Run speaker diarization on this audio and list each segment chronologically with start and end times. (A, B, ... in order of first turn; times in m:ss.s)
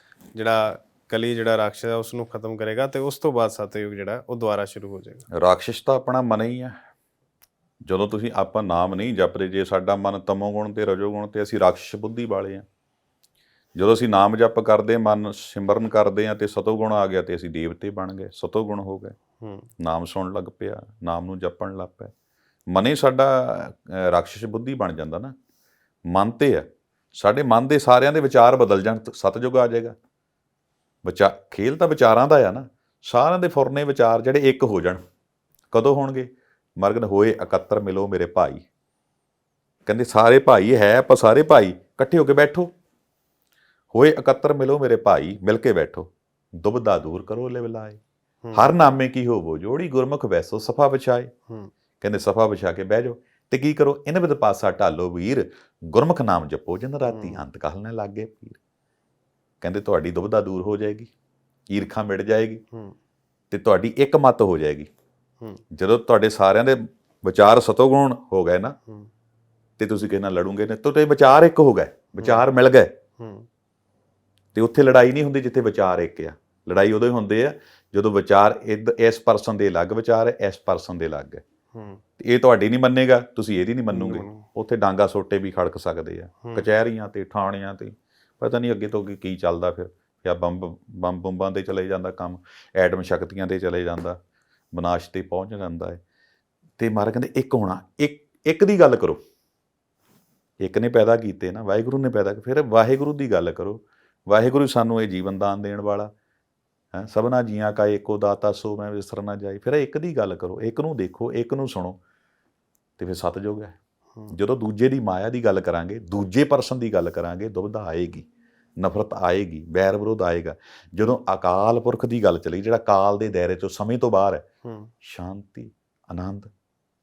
0:00.3-0:05.2 A
0:05.4-0:06.8 B
0:07.8-0:12.6 B
0:13.7-0:19.2 B
0:19.4-0:19.7 A
0:19.8-0:22.1 B
0:22.7-0:25.3 B
0:26.1-0:29.9 B
0:31.0-0:35.0 B
0:35.7-0:38.6 B
0:39.8-0:42.7 B
0:43.9-0:48.0 B
0:48.5-0:51.3 B
0:52.0-0:58.6 B
0:57.1-0:57.4 A
0:59.6-1:01.1 B
1:01.7-1:02.6 B
1:03.5-1:04.9 B
1:05.7-1:08.8 B
1:09.8-1:12.9 B
1:12.2-1:12.5 A
1:13.2-1:13.5 A
1:14.5-1:21.4 B
1:21.7-1:22.0 A
1:22.2-1:34.2 B
1:23.9-1:24.4 A
1:34.7-1:36.0 B
1:36.8-1:39.2 B
1:40.6-1:46.1 B
1:46.9-1:52.0 B
1:53.0-1:53.8 B
1:54.3-1:58.3 B
1:58.8-2:04.4 B
2:04.6-2:04.9 A
2:05.0-2:06.5 B